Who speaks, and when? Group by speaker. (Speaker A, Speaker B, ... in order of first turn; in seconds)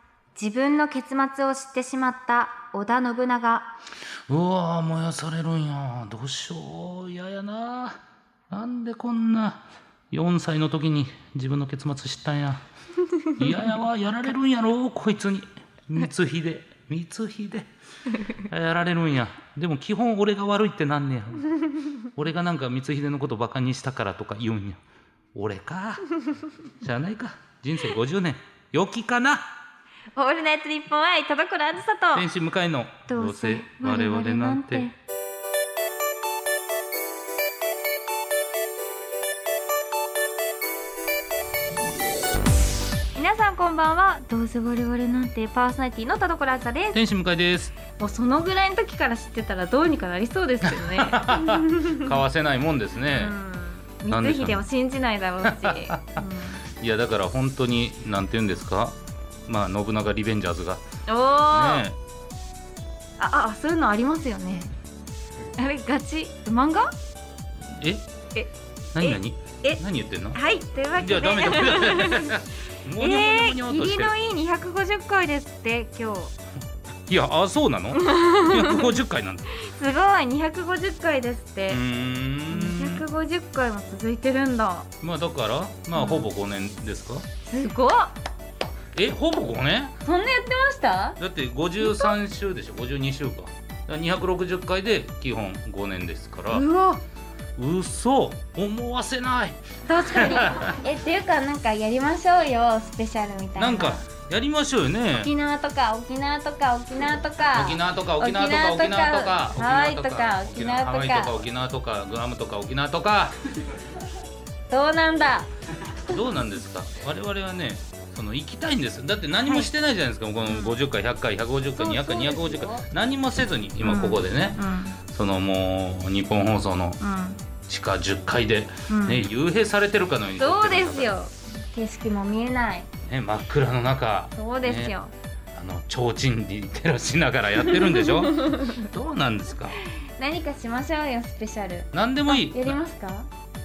Speaker A: 0.3-3.7, 30.1-32.3, 33.1-34.9, 43.1-47.0, 48.0-52.1, 53.1-56.6, 61.1-61.9, 63.2-64.7, 65.6-66.9, 68.3-69.8, 70.3-72.4, 73.0-76.3, 77.9-79.0, 79.5-81.8, 82.5-84.9, 85.9-86.3, 87.4-88.1, 90.0-91.2, 91.8-92.1, 96.5-97.0, 99.8-104.0, 105.2-111.4, 114.7-115.5, 120.4-120.8, 121.8-122.8, 123.8-125.0, 127.0-127.4, 128.9-129.2, 130.4-132.9, 134.3-135.1, 137.6-138.9, 140.2-143.3
Speaker B: 4.3-8.0, 8.5-12.6, 13.4-17.7, 18.4-24.8, 25.3-26.2, 26.8-29.5, 32.1-34.9, 46.9-47.8, 50.6-53.4, 54.1-54.6, 55.4-56.2, 56.8-60.8, 61.4-62.0, 67.7-68.0, 68.9-70.4, 71.0-74.1, 77.0-79.5, 81.7-83.0, 85.0-87.2, 88.9-90.0, 91.2-96.6, 97.6-100.8, 103.5-105.3, 107.5-113.4, 116.1-127.0, 127.7-131.2, 133.1-134.9, 135.5-139.8, 141.9-142.8